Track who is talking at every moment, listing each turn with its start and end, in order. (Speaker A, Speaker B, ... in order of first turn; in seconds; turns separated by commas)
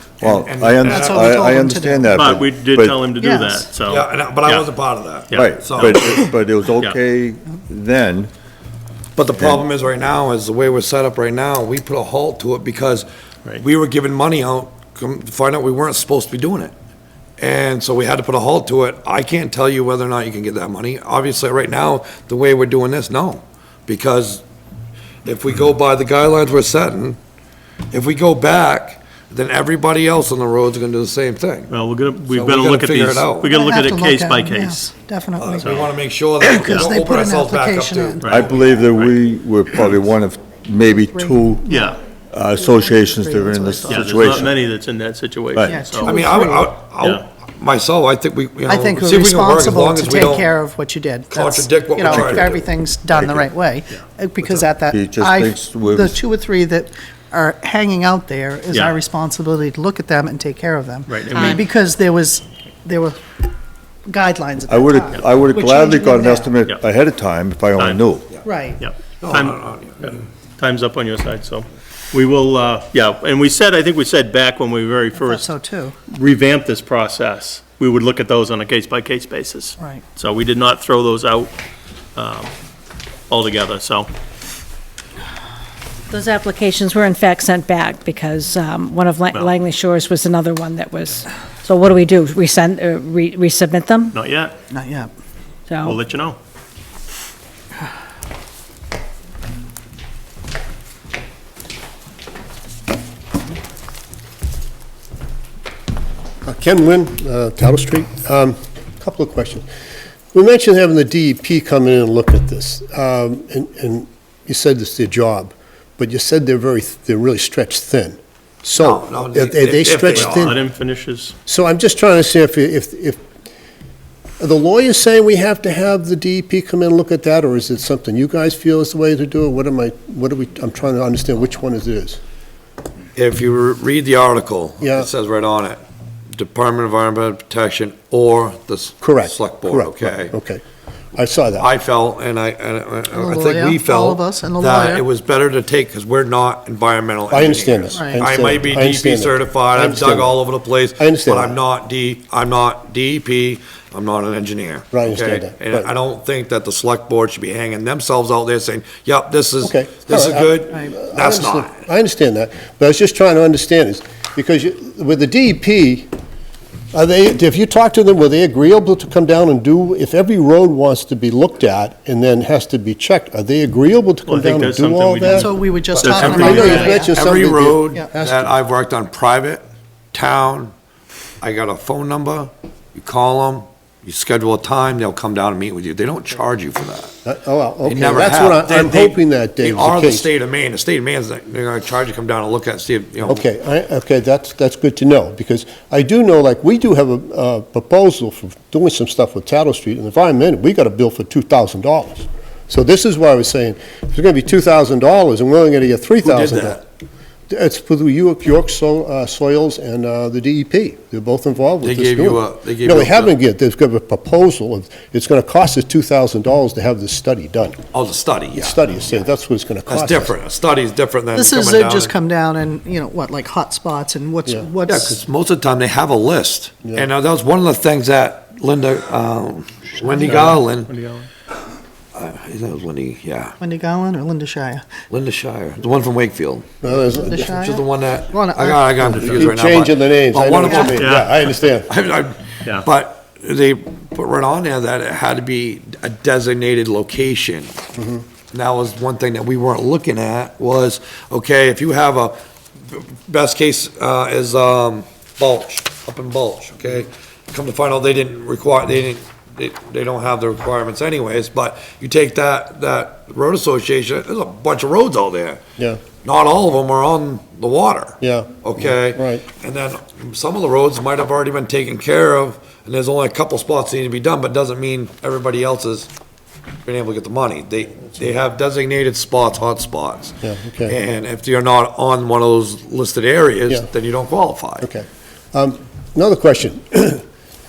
Speaker A: 0.2-1.4, Speaker B: 0.2-3.1, Speaker C: 0.9-2.3, Speaker D: 2.1-4.7, Speaker C: 3.2-3.7, Speaker A: 3.9-6.0, Speaker D: 5.3-6.2, Speaker B: 5.3-8.3, Speaker A: 9.2-13.1, Speaker B: 9.3-9.6, Speaker A: 13.6-16.7, Speaker A: 17.4-24.4, Speaker A: 25.2-27.2, Speaker A: 27.9-31.7, Speaker D: 31.7-34.8, Speaker A: 32.3-33.5, Speaker C: 33.5-35.8, Speaker A: 35.4-38.9, Speaker D: 35.6-35.9, Speaker C: 36.4-38.4, Speaker D: 36.6-36.9, Speaker D: 38.2-39.1, Speaker B: 38.3-41.7, Speaker C: 41.0-42.0, Speaker D: 41.7-42.0, Speaker B: 42.3-44.5, Speaker C: 42.5-44.4, Speaker D: 43.9-46.1, Speaker C: 45.7-46.7, Speaker A: 46.0-50.5, Speaker C: 48.7-63.4, Speaker A: 51.3-52.6, Speaker B: 52.1-52.6, Speaker B: 53.1-53.5, Speaker B: 54.8-56.2, Speaker D: 58.7-59.0, Speaker D: 61.1-61.6, Speaker E: 61.3-61.6, Speaker C: 64.1-66.5, Speaker B: 64.7-68.3, Speaker D: 67.8-68.0, Speaker C: 68.4-68.8, Speaker D: 68.8-75.5, Speaker A: 69.2-70.2, Speaker C: 75.2-76.0, Speaker D: 76.1-81.5, Speaker D: 82.2-82.5, Speaker D: 83.3-84.1, Speaker E: 86.1-94.2, Speaker D: 94.1-94.5, Speaker C: 94.7-95.1, Speaker E: 95.7-96.0, Speaker D: 95.8-96.4, Speaker F: 106.5-109.7, Speaker F: 110.3-120.6, Speaker A: 118.8-120.6, Speaker D: 120.1-121.3, Speaker F: 121.5-123.2, Speaker F: 124.4-132.2, Speaker A: 133.2-135.8, Speaker F: 134.8-135.1, Speaker A: 136.3-140.3, Speaker F: 139.0-140.6, Speaker F: 141.2-141.7, Speaker A: 141.6-161.8, Speaker C: 143.1-145.1, Speaker F: 147.3-150.4, Speaker C: 147.9-148.2, Speaker F: 151.0-151.6, Speaker F: 154.9-155.9, Speaker F: 159.6-166.1, Speaker F: 166.9-175.5, Speaker D: 174.3-176.9, Speaker C: 175.3-177.1, Speaker A: 175.9-179.6, Speaker F: 176.2-178.5, Speaker A: 180.1-180.7, Speaker A: 181.4-187.2, Speaker F: 187.2-190.3, Speaker A: 187.9-193.4, Speaker F: 193.2-206.8, Speaker A: 206.2-206.8, Speaker F: 207.5-217.8, Speaker A: 211.8-213.3, Speaker A: 217.9-219.1, Speaker F: 218.5-220.3, Speaker A: 219.9-222.2, Speaker C: 221.3-225.2, Speaker A: 224.8-230.9, Speaker D: 230.1-231.3, Speaker C: 230.3-230.5, Speaker A: 232.1-233.6, Speaker C: 233.6-234.8, Speaker A: 235.1-236.7, Speaker F: 236.8-237.6, Speaker C: 236.8-239.2, Speaker A: 237.4-247.8, Speaker F: 239.0-241.9, Speaker D: 239.1-239.5, Speaker D: 240.9-241.3, Speaker F: 248.0-248.2, Speaker A: 248.5-265.6, Speaker A: 266.2-276.1, Speaker F: 268.2-269.4, Speaker A: 276.9-284.9, Speaker F: 280.4-281.0, Speaker F: 284.8-287.2